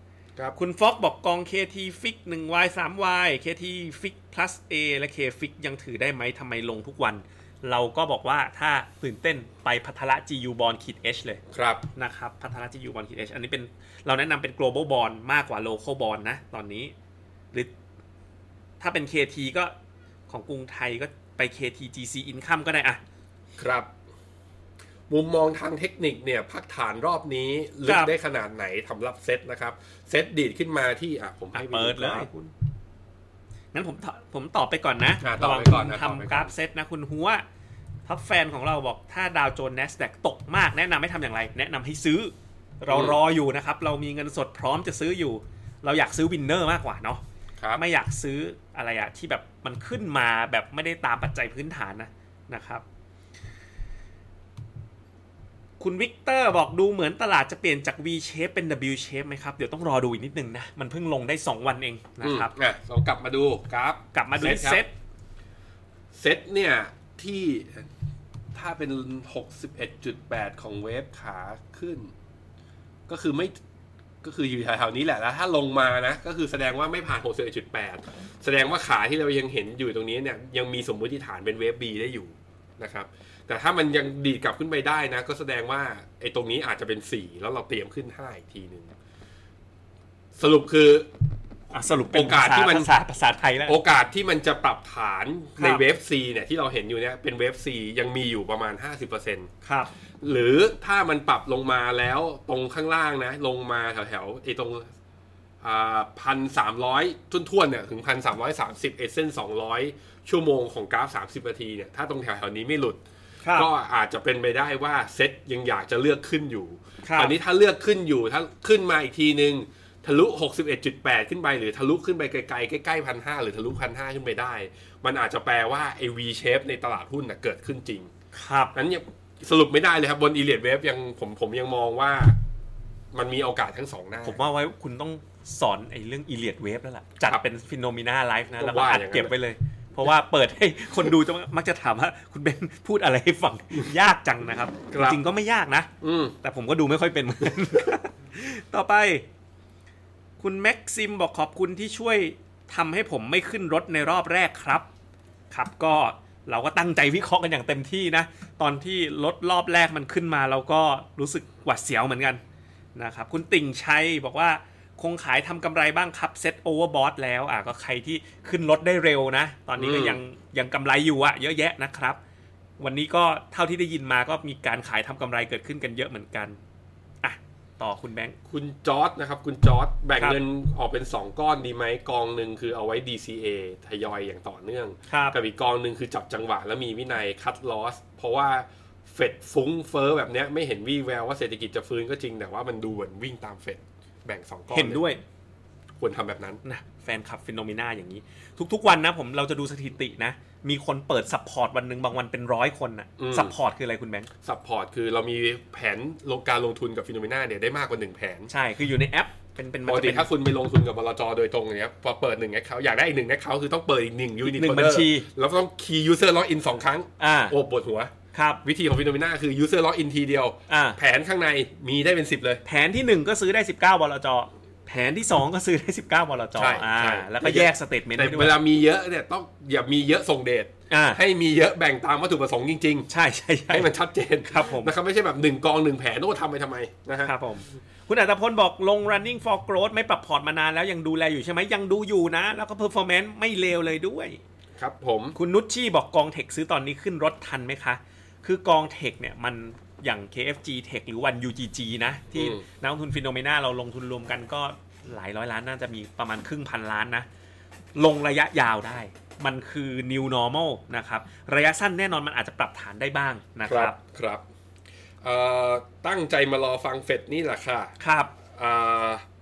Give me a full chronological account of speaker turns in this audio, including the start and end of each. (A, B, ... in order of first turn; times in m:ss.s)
0:00.6-0:11.4 A
0:11.5-0:11.8 B
0:12.0-0:16.9 A
0:18.8-0:19.7 A
0:20.3-0:23.0 A
0:23.6-0:23.9 B
0:25.1-0:32.3 B
0:27.9-0:28.1 A
0:31.5-0:32.5 A
0:33.7-0:37.4 A
0:35.2-0:36.5 B
0:38.1-0:47.2 A
0:42.9-0:43.2 B
0:47.8-0:52.8 A
0:55.8-1:02.5 A
1:02.2-1:04.8 B
1:04.1-1:04.9 A
1:06.1-1:07.9 B
1:08.5-1:12.1 B
1:13.1-1:13.6 B
1:14.2-1:28.9 B
1:30.4-1:31.1 B
1:31.7-1:33.8 A
1:32.1-1:32.9 B
1:33.6-1:39.5 B
1:35.6-1:35.8 A
1:39.6-1:39.9 A
1:40.2-1:44.9 B
1:45.6-1:53.0 B
1:53.4-1:53.7 A
1:53.5-2:08.1 B
1:57.0-1:57.3 A
2:08.3-2:08.8 A
2:08.7-2:12.4 B
2:13.1-2:14.4 B
2:14.2-2:25.9 A
2:18.5-2:19.4 B
2:24.9-2:25.2 B
2:26.0-2:26.4 B
2:26.4-2:29.3 A
2:30.4-2:34.9 A
2:35.5-2:42.4 A
2:43.0-2:52.2 A
2:49.8-2:50.2 B
2:52.8-2:56.6 A
2:57.2-2:58.4 A
2:58.5-3:15.0 B
3:05.1-3:05.4 A
3:14.7-3:15.2 A
3:16.0-3:16.6 B
3:16.6-3:24.3 A
3:23.2-3:23.6 B
3:24.4-3:28.5 B
3:28.5-3:30.3 A
3:29.9-3:38.1 B
3:34.4-3:35.3 A
3:37.2-3:37.6 A
3:38.3-3:38.6 A
3:38.6-3:42.6 B
3:40.7-3:41.0 A
3:42.6-3:48.6 A
3:46.6-3:53.1 B
3:50.9-3:51.2 A
3:53.1-3:53.9 A
3:53.7-3:57.3 B
3:54.5-3:54.9 A
3:57.2-4:04.4 A
4:04.8-4:05.4 B
4:05.4-4:17.3 A
4:12.4-4:12.6 B
4:18.0-4:24.0 A
4:23.7-4:24.4 B
4:25.2-4:27.9 B
4:28.0-4:28.3 A
4:28.5-4:29.2 B